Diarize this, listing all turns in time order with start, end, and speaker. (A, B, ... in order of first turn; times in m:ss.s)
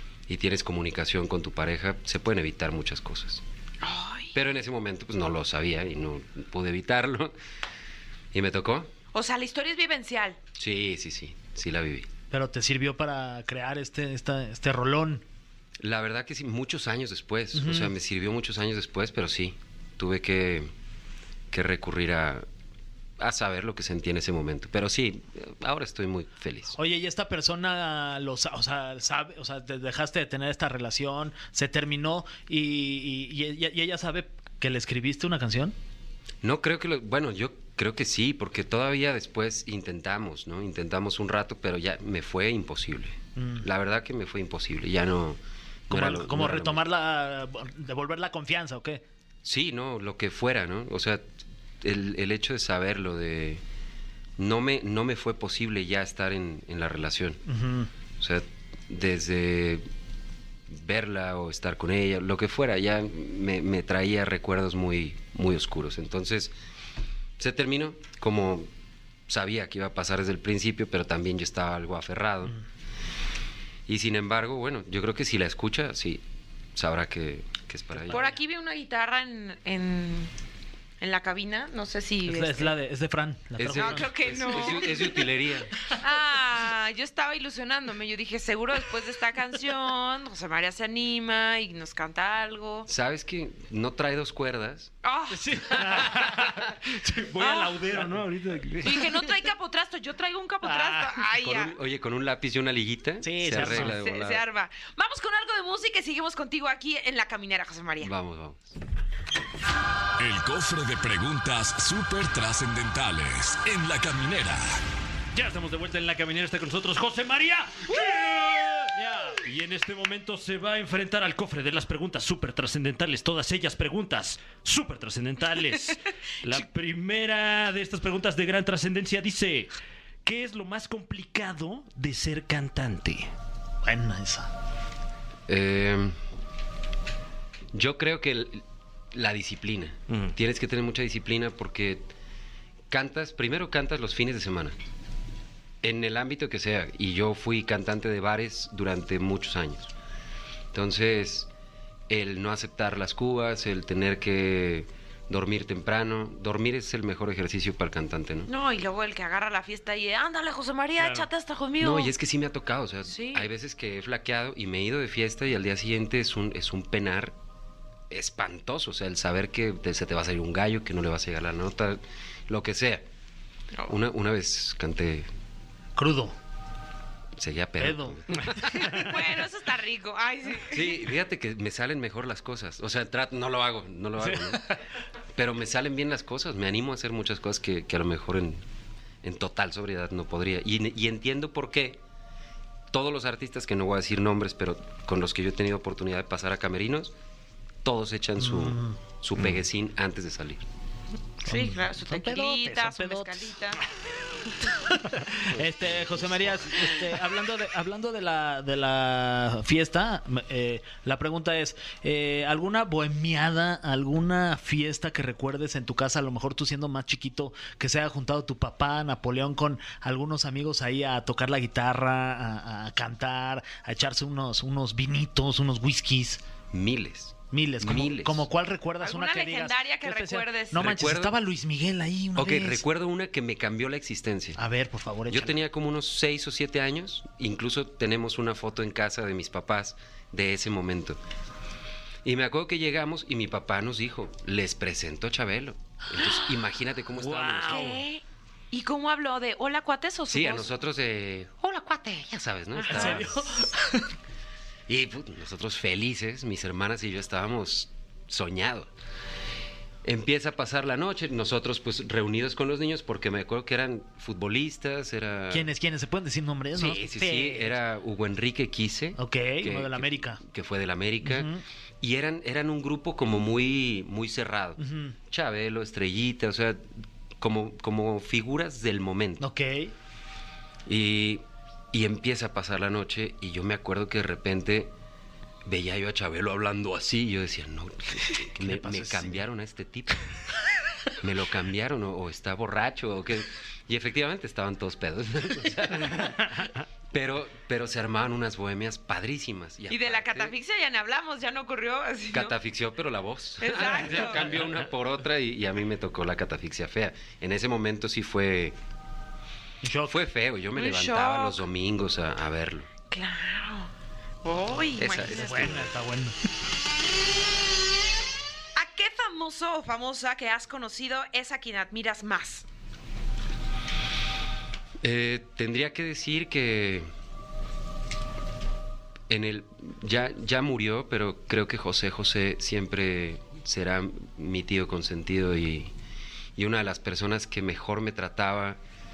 0:00.3-0:03.4 A
0:03.8-0:04.4 B
0:04.3-0:07.3 A
0:08.3-0:08.9 A
0:09.1-0:10.4 B
0:10.6-0:12.1 A
0:12.3-0:15.2 C
0:15.8-0:20.7 A
0:17.5-0:17.9 C
0:21.5-0:22.4 A
0:23.2-0:26.8 A
0:26.8-0:35.7 C
0:36.4-0:46.8 A
0:43.4-0:43.7 C
0:45.9-0:49.0 C
0:49.4-0:53.6 A
0:54.4-0:57.4 A
0:57.5-0:57.9 C
0:58.2-0:59.8 A
1:00.7-1:06.5 A
1:07.4-1:08.7 A
1:09.3-1:12.5 A
1:13.9-1:16.2 A
1:16.7-1:18.2 A
1:18.0-1:18.4 C
1:18.1-1:20.3 B
1:21.0-1:22.7 B
1:22.2-1:25.0 C
1:23.6-1:25.7 A
1:23.7-1:25.3 B
1:25.9-1:32.9 B
1:32.9-1:34.9 A
1:35.0-1:36.1 B
1:35.3-1:39.1 D
1:37.4-1:37.8 B
1:38.8-1:41.7 B
1:40.6-1:41.3 C
1:41.4-1:44.4 A
1:43.2-1:44.0 C
1:43.7-1:48.1 B
1:48.0-1:48.7 A
1:50.2-1:54.8 E
1:55.3-2:09.7 D
2:10.2-2:13.3 D
2:13.8-2:14.5 C
2:15.5-2:16.2 A
2:17.7-2:22.0 A
2:22.9-2:24.7 A
2:25.8-2:29.9 A
2:30.7-2:31.5 A
2:32.1-2:38.5 A
2:38.4-2:42.1 B
2:41.8-2:47.4 A
2:43.1-2:43.5 B
2:48.1-2:53.0 A
2:53.9-2:55.3 A
2:56.0-2:56.4 C
2:57.4-2:59.1 A
2:57.8-2:58.8 C
2:58.7-3:01.0 B
3:00.6-3:04.7 A
3:04.2-3:04.6 C
3:05.4-3:08.6 A
3:09.2-3:12.0 A
3:12.9-3:17.1 A
3:17.8-3:20.6 A
3:18.4-3:19.0 C
3:21.4-3:23.8 B
3:21.4-3:23.5 C
3:24.8-3:46.4 C
3:25.5-3:26.8 A
3:46.7-3:48.4 A
3:47.5-3:52.8 C
3:49.0-3:51.0 B
3:50.8-3:51.3 A
3:52.4-3:54.6 A
3:54.6-3:55.6 C
3:55.3-4:01.2 A
4:02.2-4:08.0 A
4:07.2-4:07.9 C
4:07.7-4:10.7 B
4:10.3-4:13.5 A
4:12.8-4:13.2 B
4:12.9-4:14.1 C
4:14.9-4:18.9 A
4:20.0-4:25.7 A
4:25.5-4:27.7 C
4:26.7-4:39.4 A
4:29.2-4:30.4 C
4:31.2-4:31.6 C
4:34.8-4:35.1 C
4:39.4-4:39.9 C
4:40.9-4:44.9 A
4:45.6-4:50.2 A
4:48.6-4:49.4 C
4:51.2-5:00.5 A
4:59.9-5:02.5 B
5:02.3-5:08.8 A
5:03.6-5:04.6 B
5:09.8-5:10.2 C
5:10.0-5:12.9 A
5:10.7-5:11.6 B
5:13.1-5:13.9 B
5:14.4-5:15.8 B
5:15.0-5:15.9 A
5:15.3-5:16.4 C
5:18.8-5:22.6 B
5:25.0-5:27.1 A
5:29.3-5:35.9 A
5:36.6-5:38.8 A